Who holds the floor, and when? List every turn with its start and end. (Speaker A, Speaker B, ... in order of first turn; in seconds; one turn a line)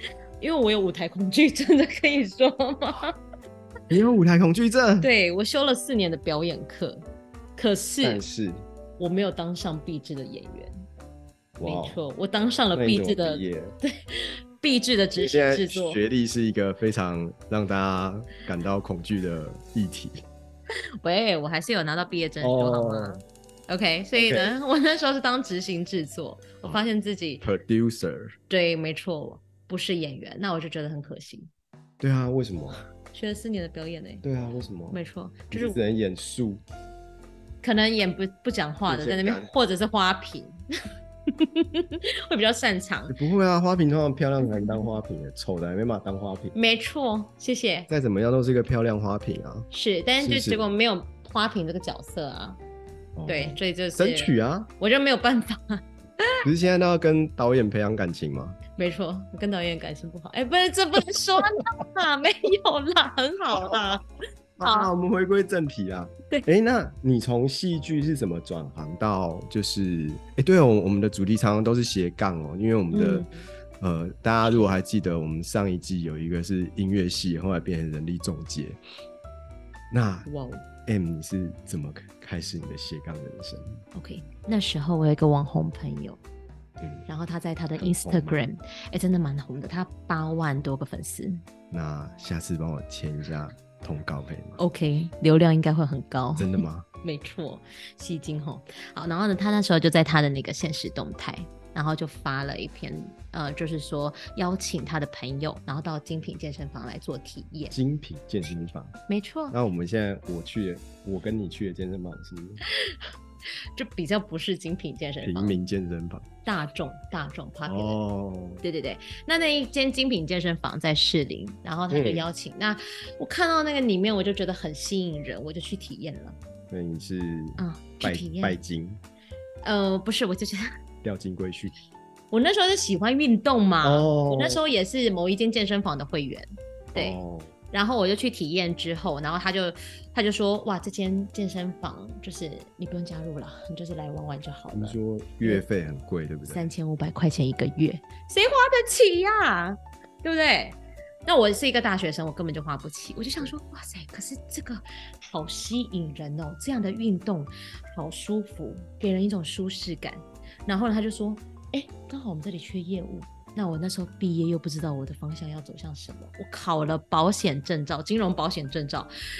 Speaker A: 0.4-3.2
Speaker B: 3.9-5.1
Speaker A: 5.0-7.0
Speaker A: 7.5-8.2
Speaker B: 8.0-8.7
Speaker A: 9.0-10.8
Speaker B: 11.6-12.0
Speaker A: 11.6-16.0
Speaker B: 12.7-13.7
Speaker B: 15.2-20.2
Speaker A: 21.0-27.5
Speaker B: 22.4-23.2
Speaker B: 24.2-24.5
Speaker B: 27.4-28.4
Speaker A: 28.5-31.5
Speaker B: 32.0-32.8
Speaker A: 33.1-34.2
Speaker B: 34.2-35.0
Speaker A: 34.9-35.8
Speaker B: 35.5-36.6
Speaker A: 37.6-40.6
Speaker B: 38.9-39.5
Speaker A: 41.4-43.2
Speaker B: 43.1-46.5
Speaker A: 46.5-47.9
Speaker B: 47.9-49.7
Speaker A: 49.7-52.6
Speaker B: 50.2-50.6
Speaker B: 53.1-54.7
Speaker A: 53.2-56.4
Speaker B: 56.4-58.6
Speaker A: 58.8-64.0
Speaker B: 64.6-73.3
Speaker A: 64.6-64.9
Speaker A: 72.9-73.4
Speaker B: 73.8-78.8
Speaker A: 74.4-74.7
Speaker B: 79.9-80.3
Speaker A: 80.2-80.7
Speaker B: 80.8-83.8
Speaker A: 83.9-86.2
Speaker B: 86.8-87.1
Speaker A: 87.1-91.4
Speaker B: 87.8-88.4
Speaker B: 91.7-94.6
Speaker A: 94.6-107.8
Speaker B: 96.4-96.8
Speaker B: 107.7-109.0
Speaker A: 109.1-109.6
Speaker B: 109.5-112.6
Speaker A: 113.8-115.6
Speaker B: 115.2-116.2
Speaker A: 116.4-118.0
Speaker B: 117.6-118.6
Speaker A: 118.6-126.4
Speaker B: 121.9-122.3
Speaker B: 126.7-129.0
Speaker A: 127.6-128.6
Speaker A: 129.6-130.7
Speaker B: 131.0-131.7
Speaker A: 132.3-137.2
Speaker B: 133.8-134.6
Speaker B: 136.9-137.5
Speaker A: 137.7-145.6
Speaker B: 144.7-146.7
Speaker A: 146.5-169.1